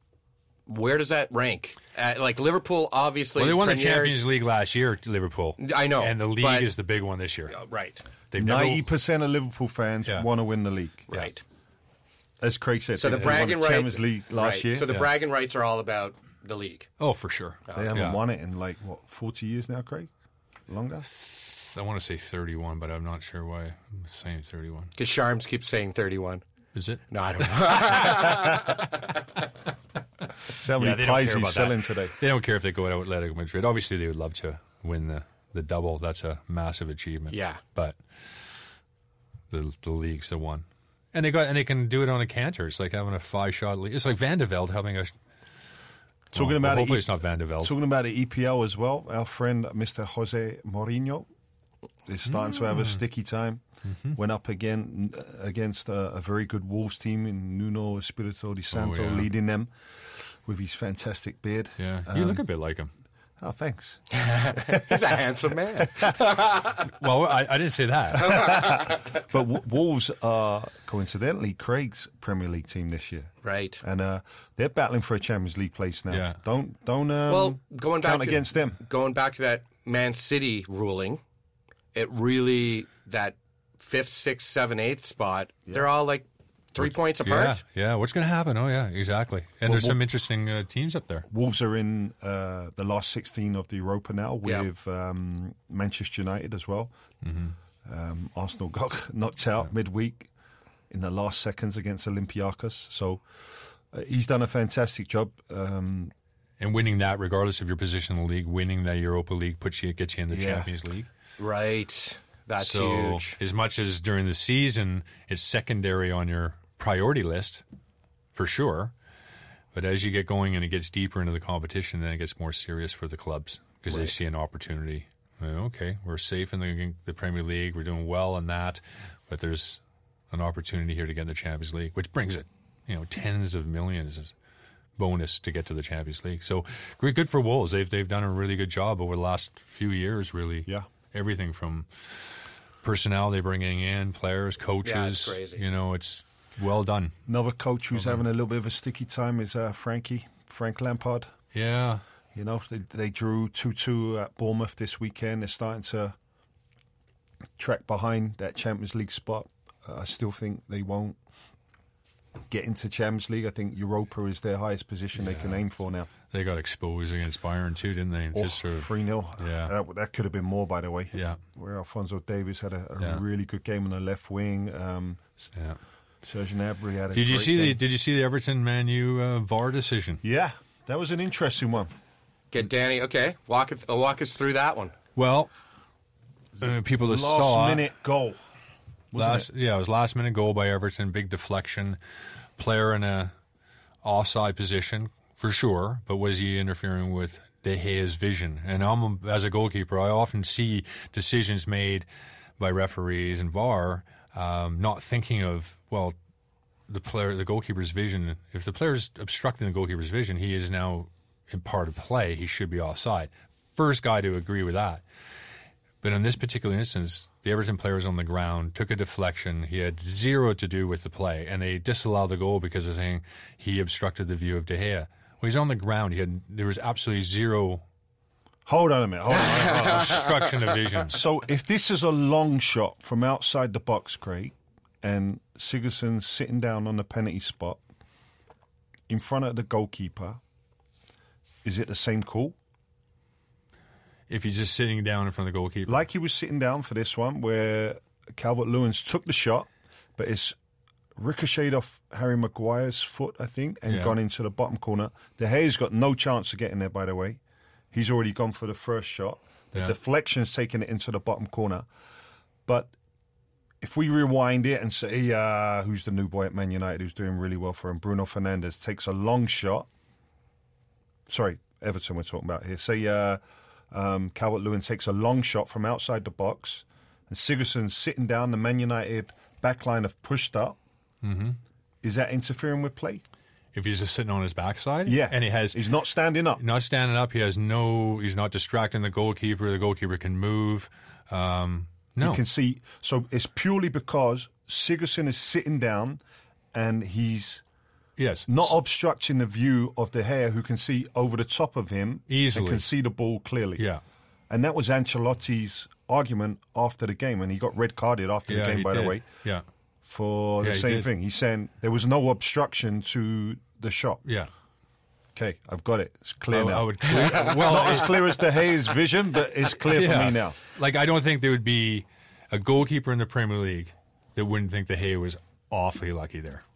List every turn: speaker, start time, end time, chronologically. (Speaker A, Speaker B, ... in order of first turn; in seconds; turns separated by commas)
Speaker A: 0.7-4.3, Speaker B: 3.4-7.6, Speaker A: 5.6-6.7, Speaker A: 7.5-8.1, Speaker B: 8.3-8.9, Speaker C: 8.3-11.1, Speaker A: 11.1-11.4, Speaker C: 12.4-14.9, Speaker A: 13.0-16.9, Speaker B: 13.1-13.5, Speaker B: 17.0-18.2, Speaker C: 17.8-20.1, Speaker C: 20.7-21.1, Speaker B: 21.1-24.9, Speaker A: 25.0-26.4, Speaker B: 26.7-28.8, Speaker A: 27.1-29.2, Speaker C: 30.6-32.1, Speaker B: 30.8-38.0, Speaker A: 37.3-37.6, Speaker B: 39.5-45.1, Speaker C: 46.3-51.3, Speaker B: 46.3-47.8, Speaker C: 52.1-53.6, Speaker B: 52.3-53.0, Speaker B: 53.9-54.2, Speaker C: 54.1-62.4, Speaker B: 58.7-59.3, Speaker B: 61.8-62.9, Speaker C: 63.4-65.2, Speaker A: 64.2-66.8, Speaker B: 66.9-68.8, Speaker A: 68.2-69.1, Speaker C: 69.2-78.8, Speaker A: 73.4-73.8, Speaker B: 76.1-76.4, Speaker A: 77.3-81.2, Speaker A: 81.9-87.6, Speaker B: 86.8-91.3, Speaker C: 89.7-90.0, Speaker C: 91.3-96.9, Speaker B: 97.2-97.5, Speaker C: 97.8-100.3, Speaker C: 100.9-103.2, Speaker C: 103.9-106.1, Speaker B: 106.6-111.1, Speaker C: 110.3-110.7, Speaker A: 111.4-113.4, Speaker B: 112.6-117.6, Speaker B: 118.3-118.9, Speaker B: 119.7-134.3, Speaker B: 135.0-147.1, Speaker A: 144.8-145.6, Speaker C: 147.3-151.3, Speaker B: 147.9-148.2, Speaker B: 151.5-152.0, Speaker C: 152.3-156.2, Speaker C: 157.6-161.2, Speaker C: 162.5-166.1, Speaker B: 165.2-165.6, Speaker B: 166.3-169.7, Speaker C: 168.3-175.4, Speaker B: 171.1-171.4, Speaker C: 176.2-177.8, Speaker B: 177.1-180.2, Speaker C: 180.2-181.9, Speaker A: 182.5-184.9, Speaker B: 185.2-185.5, Speaker C: 186.6-188.4, Speaker B: 186.6-187.8, Speaker C: 189.1-189.5, Speaker B: 189.1-192.0, Speaker B: 192.6-193.3, Speaker B: 194.0-202.1, Speaker B: 202.6-206.2, Speaker B: 206.9-215.0, Speaker B: 216.0-227.8, Speaker C: 228.7-230.3, Speaker A: 229.3-231.0, Speaker B: 229.6-231.2, Speaker C: 231.1-237.8, Speaker C: 239.1-240.4, Speaker C: 241.6-242.6, Speaker B: 244.3-246.0, Speaker C: 245.9-250.6, Speaker C: 251.2-257.4, Speaker B: 253.9-254.2, Speaker C: 257.9-261.9, Speaker C: 262.7-262.9, Speaker C: 263.8-269.9, Speaker C: 271.3-280.8, Speaker B: 281.2-281.6, Speaker C: 282.0-283.2, Speaker B: 283.7-285.8, Speaker C: 285.1-286.6, Speaker B: 286.6-292.4, Speaker C: 292.2-296.2, Speaker C: 296.7-297.6, Speaker B: 298.2-298.6, Speaker C: 298.5-303.9, Speaker B: 302.3-302.9, Speaker C: 304.5-309.2, Speaker B: 308.5-309.6, Speaker C: 310.1-314.2, Speaker B: 310.6-311.1, Speaker B: 314.3-314.5, Speaker C: 315.4-320.6, Speaker B: 316.5-318.4, Speaker A: 317.1-318.4, Speaker B: 319.9-326.6